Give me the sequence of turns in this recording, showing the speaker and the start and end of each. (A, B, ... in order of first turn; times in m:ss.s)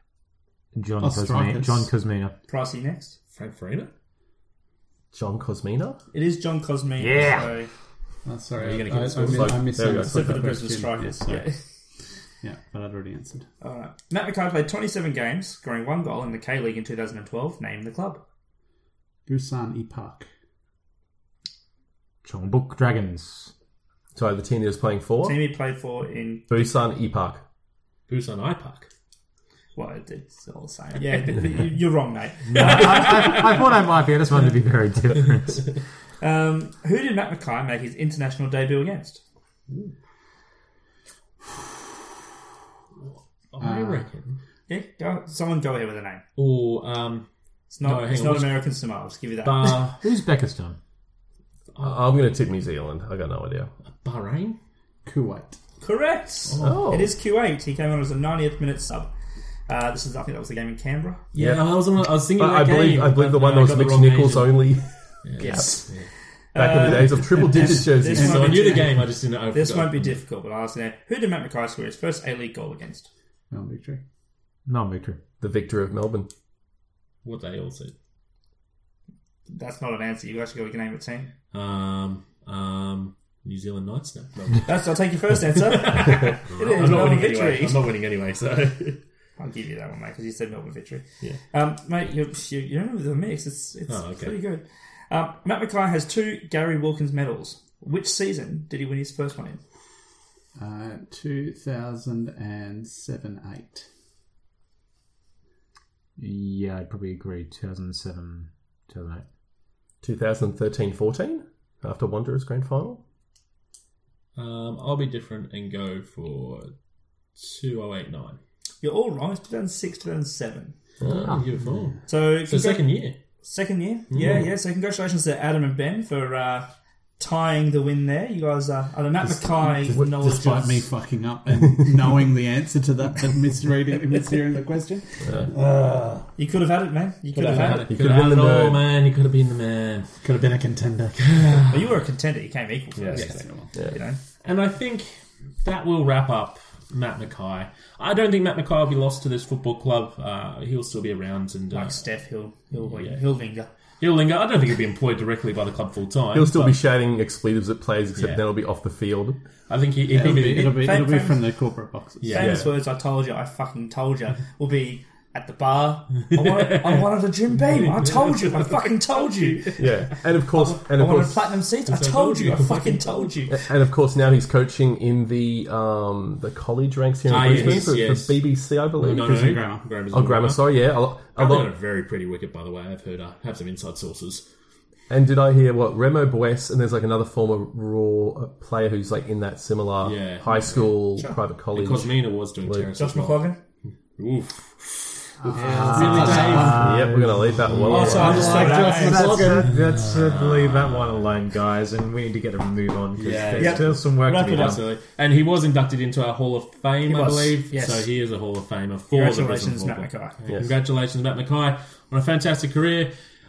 0:00.7-0:02.3 A
0:01.0-0:01.9 B
0:02.5-0:03.2 C
0:03.3-0:03.9 D
0:05.1-0:06.0 E
0:06.1-0:07.7 C
0:07.0-0:07.4 A
0:08.2-0:11.4 B
0:08.6-0:09.9 D
0:09.3-0:10.4 E
0:10.0-0:11.6 C
0:12.4-0:13.4 B
0:13.6-0:18.2 C
0:19.3-0:20.3 B
0:22.2-0:23.5 A
0:24.1-0:25.4 E
0:25.2-0:26.4 C
0:26.5-0:27.4 E
0:28.1-0:28.9 D
0:29.8-0:33.6 C
0:32.5-0:35.7 A
0:36.2-0:39.2 C
0:43.0-0:44.4 D
0:43.6-0:44.1 B
0:44.7-0:46.2 C
0:46.4-0:47.3 D
0:47.7-0:49.9 C
0:47.8-0:48.6 D
0:49.4-0:50.0 D
0:49.8-0:50.8 A
0:51.8-0:53.7 E
0:53.9-0:54.6 D
0:55.0-0:55.6 B
0:55.8-0:59.1 C
0:56.5-0:56.9 D
0:56.6-0:57.1 E
0:59.7-1:01.2 C
1:01.3-1:04.6 D
1:01.3-1:05.7 E
1:05.2-1:06.1 D
1:05.4-1:06.0 C
1:06.5-1:13.1 C
1:06.6-1:08.2 E
1:07.4-1:09.0 B
1:08.1-1:10.2 D
1:13.5-1:14.0 B
1:14.7-1:15.2 A
1:15.4-1:16.3 E
1:17.2-1:17.9 D
1:19.5-1:21.3 C
1:21.5-1:24.9 D
1:24.6-1:27.9 C
1:25.8-1:29.0 D
1:29.4-1:39.6 C
1:33.9-1:34.4 D
1:40.6-1:43.9 B
1:46.2-1:49.2 A
1:50.0-1:53.0 E
1:54.3-1:56.7 D
1:57.3-1:58.4 D
1:58.8-2:00.8 C
2:01.0-2:01.3 E
2:01.1-2:03.2 D
2:02.1-2:10.9 C
2:04.1-2:04.5 D
2:09.2-2:16.3 B
2:16.4-2:17.9 C
2:17.4-2:20.1 D
2:17.5-2:18.8 E
2:20.2-2:21.5 B
2:21.3-2:21.8 D
2:21.7-2:24.2 C
2:23.0-2:23.4 D
2:23.1-2:23.7 B
2:24.4-2:32.0 D
2:31.7-2:33.7 C
2:32.8-2:33.2 D
2:34.0-2:36.7 D
2:36.3-2:39.4 E
2:38.2-2:38.4 D
2:39.7-2:41.0 D
2:40.1-2:42.6 B
2:40.2-2:41.5 C
2:42.2-2:42.6 D
2:42.3-2:53.6 C
2:42.4-2:42.6 E
2:46.4-2:47.0 D
2:48.1-2:48.7 D
2:49.2-2:49.8 D
2:49.8-2:51.5 E
2:51.9-2:53.3 D
2:53.5-2:59.4 E
2:57.2-2:58.4 D
2:59.0-3:00.6 D
2:59.0-2:59.9 B
3:00.1-3:01.7 E
3:01.3-3:04.4 D
3:05.1-3:12.9 E
3:10.0-3:13.4 D
3:13.0-3:13.6 C
3:14.2-3:16.9 D
3:15.4-3:17.1 B
3:15.5-3:24.8 A
3:16.7-3:18.5 E
3:17.7-3:21.3 D
3:17.8-3:19.5 C
3:19.2-3:19.5 B
3:23.1-3:33.1 D
3:23.5-3:24.8 C
3:27.1-3:28.1 C
3:29.1-3:30.4 C